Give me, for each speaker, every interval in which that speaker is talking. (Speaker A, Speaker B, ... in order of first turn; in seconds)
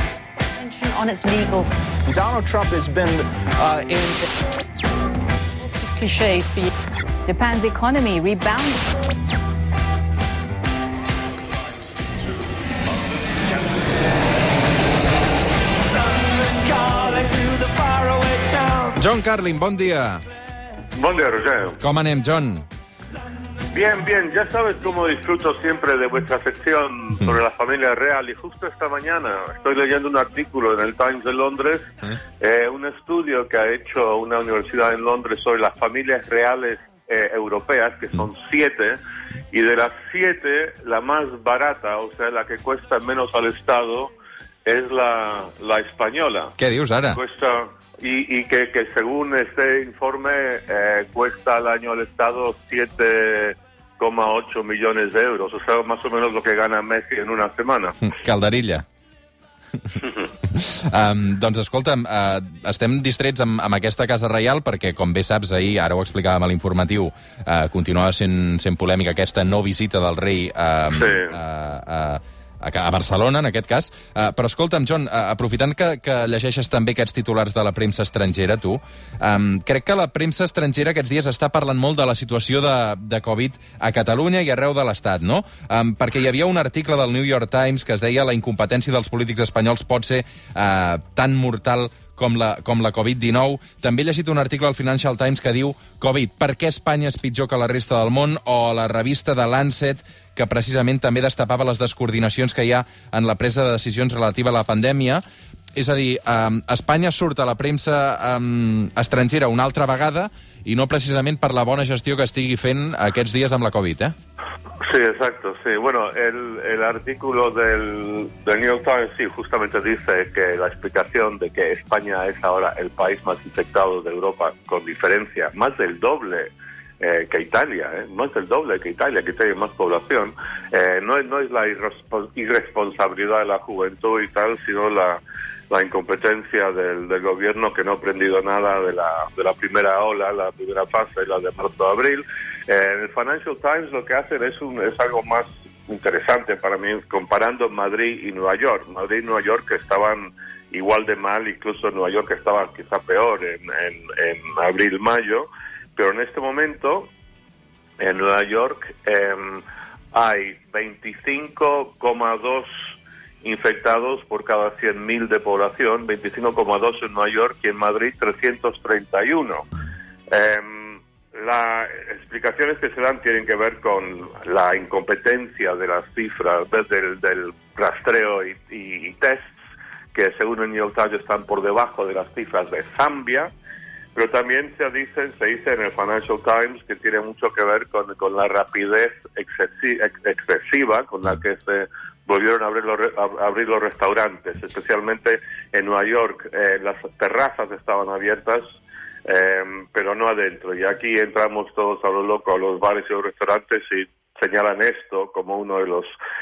Speaker A: 0.6-1.7, 5.6-6.7, 7.2-8.8
Speaker B: 2.1-4.3
Speaker C: 16.3-18.9, 20.9-21.8, 23.7-39.0, 39.5-44.1, 44.6-46.5, 47.1-58.0, 70.9-71.4, 114.8-157.1, 158.0-169.7, 170.3-179.6, 180.1-183.5, 184.1-206.1
Speaker D: 18.9-20.2, 21.8-22.6, 46.6-47.2, 58.1-58.8, 60.5-105.2, 105.8-114.1